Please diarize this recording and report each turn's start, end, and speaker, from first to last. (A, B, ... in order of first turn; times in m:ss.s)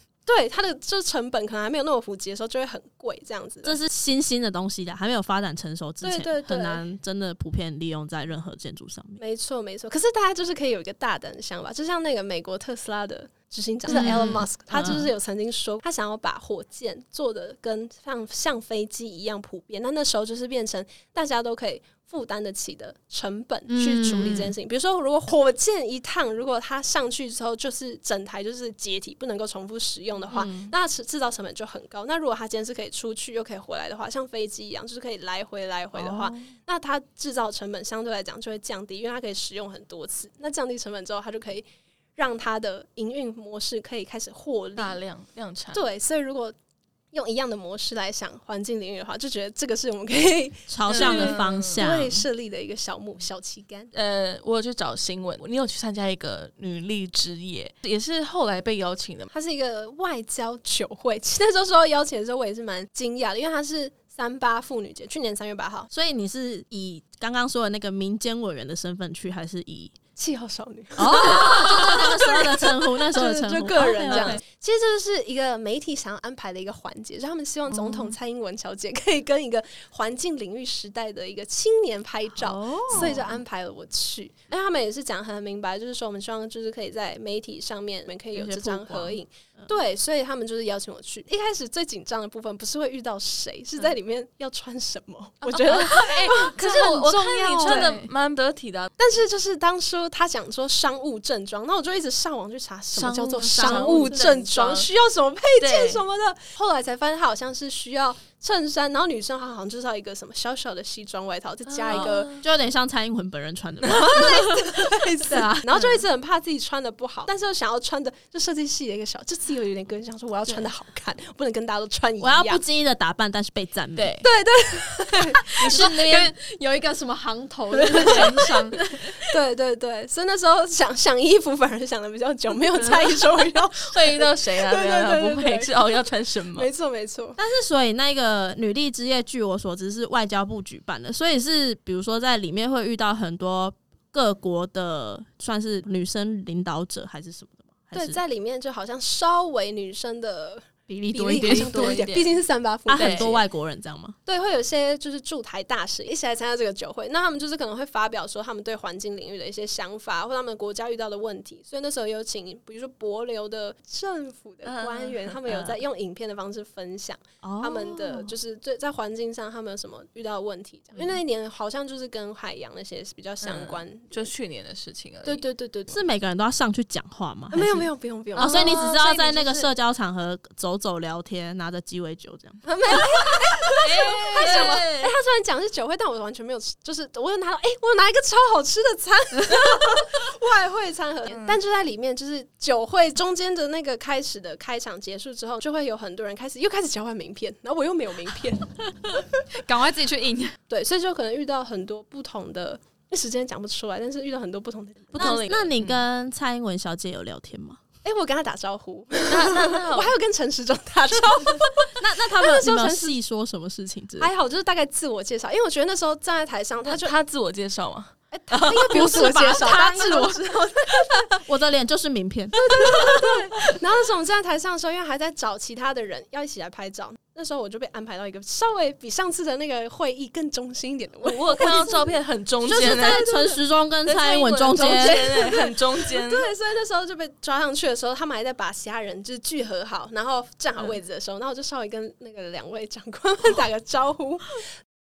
0:00.3-0:03.8 A
0:03.6-0:09.2 B
0:06.0-0:06.8 A
0:09.2-0:45.0 A
0:13.9-0:15.1 B
0:13.9-0:14.4 C
0:23.7-0:24.5 C
0:30.3-0:30.7 B
0:36.0-0:36.5 B
0:44.8-0:45.8 D
0:45.7-0:46.6 A
0:47.1-0:53.9 A
0:50.7-0:52.2 B
0:50.9-0:51.8 D
0:53.9-0:59.3 D
0:59.3-1:05.9 A
1:05.9-1:10.0 B
1:10.2-1:38.0 A
1:11.0-1:14.4 B
1:14.1-1:14.4 D
1:17.8-1:18.1 B
1:22.4-1:23.4 B
1:28.3-1:29.7 B
1:35.4-1:38.9 D
1:35.7-1:36.1 C
1:37.6-1:38.1 C
1:39.0-1:52.3 A
1:42.9-1:44.9 D
1:43.4-1:44.2 B
1:45.6-1:46.0 D
1:51.7-1:52.4 D
1:51.9-1:56.0 B
1:53.8-2:02.6 A
2:02.2-2:04.2 B
2:04.0-2:04.3 D
2:04.2-2:05.9 A
2:05.5-2:09.2 C
2:05.6-2:06.3 D
2:07.7-2:08.6 A
2:07.9-2:08.5 D
2:09.2-2:15.8 A
2:13.8-2:16.7 D
2:16.6-2:17.4 A
2:17.4-2:28.2 B
2:27.9-2:33.4 A
2:30.9-2:32.0 C
2:31.4-2:32.3 D
2:32.9-2:34.2 B
2:33.0-2:33.4 D
2:34.3-2:54.3 A
2:44.6-2:45.4 D
2:45.5-2:45.7 B
2:47.4-2:48.3 B
2:53.4-2:55.4 D
2:55.2-2:56.0 A
2:55.9-3:05.1 B
2:57.5-2:59.7 A
2:58.4-2:58.8 D
3:02.6-3:19.2 A
3:03.8-3:04.8 D
3:11.3-3:11.6 D
3:19.6-3:20.6 C
3:20.7-3:25.7 A
3:25.1-3:26.0 D
3:25.1-3:27.8 B
3:28.0-3:33.2 A
3:29.3-3:30.1 D
3:32.0-3:34.3 B
3:34.2-3:37.1 A
3:36.8-3:40.1 D
3:38.3-3:41.3 A
3:38.8-3:40.4 B
3:41.4-3:43.4 B
3:42.5-3:53.6 A
3:51.2-3:53.3 D
3:52.7-3:55.2 B
3:54.1-3:56.5 D
3:54.7-4:04.6 A